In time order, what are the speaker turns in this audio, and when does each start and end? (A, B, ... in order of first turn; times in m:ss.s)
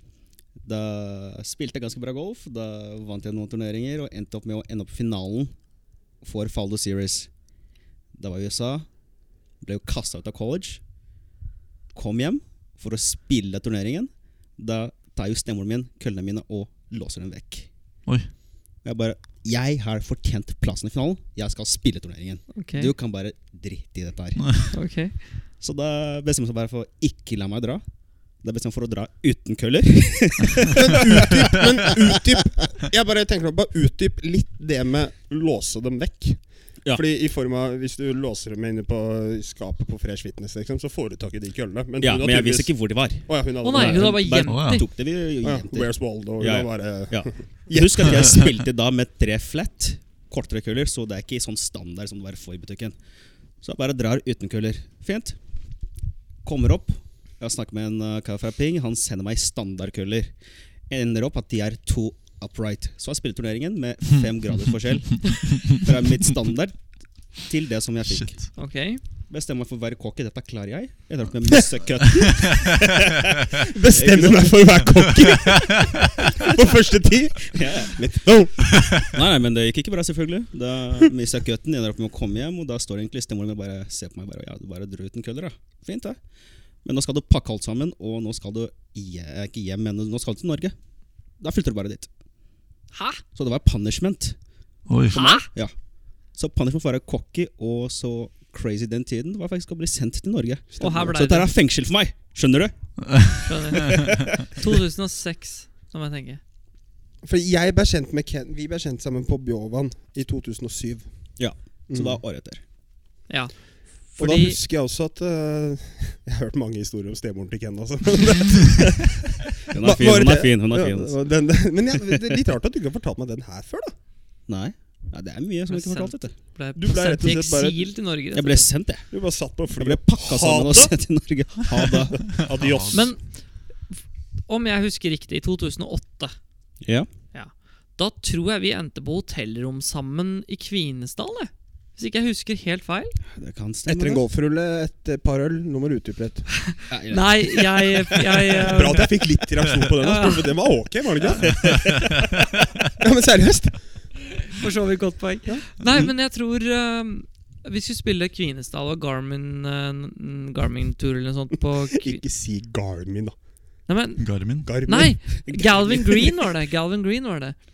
0:00.6-0:05.5 A
0:06.2-0:07.3 A
0:08.1-0:08.9 A
0:09.5-0:10.8 A
0:11.9-0:17.7 A
0:18.8-0:24.8 A
0:22.5-0:22.9 B
0:24.7-0:25.2 B
0:25.6-0:31.6 A
0:30.7-0:44.4 C
0:42.0-0:53.0 A
0:43.6-0:44.8 B
0:44.5-0:44.8 D
0:45.4-0:48.4 C
0:53.6-0:55.4 A
0:56.4-1:00.3 A
1:00.9-1:08.6 A
1:08.0-1:08.4 D
1:08.6-1:09.0 B
1:09.3-1:15.0 A
1:13.7-1:19.0 C
1:17.5-1:18.0 A
1:19.1-1:26.2 A
1:26.8-1:30.8 A
1:31.4-1:32.1 A
1:32.9-1:33.2 B
1:33.3-1:34.4 A
1:34.9-1:35.4 D
1:35.1-1:43.4 A
1:35.1-1:35.5 B
1:40.7-1:41.1 C
1:40.8-1:41.5 B
1:43.1-1:43.4 D
1:43.4-1:46.4 B
1:47.2-1:52.2 C
1:51.4-1:52.6 A
1:53.3-1:54.6 B
1:54.2-2:03.9 C
1:59.7-2:01.2 A
2:04.5-2:06.3 A
2:05.7-2:08.7 B
2:06.7-2:07.8 C
2:08.3-2:09.2 A
2:09.1-2:11.0 C
2:09.8-2:12.4 A
2:11.9-2:13.1 C
2:12.4-2:13.0 D
2:12.9-2:13.3 B
2:13.9-2:16.3 B
2:16.8-2:17.1 A
2:17.3-2:23.2 B
2:23.3-2:24.2 A
2:23.8-2:26.5 C
2:26.7-2:29.2 B
2:26.9-2:28.1 A
2:28.6-2:32.1 C
2:30.0-2:30.5 B
2:31.4-2:32.1 A
2:32.9-2:33.8 C
2:34.5-2:42.2 B
2:41.9-2:43.4 C
2:43.9-2:47.6 B
2:44.2-2:44.7 D
2:44.6-2:45.2 C
2:45.4-2:46.4 A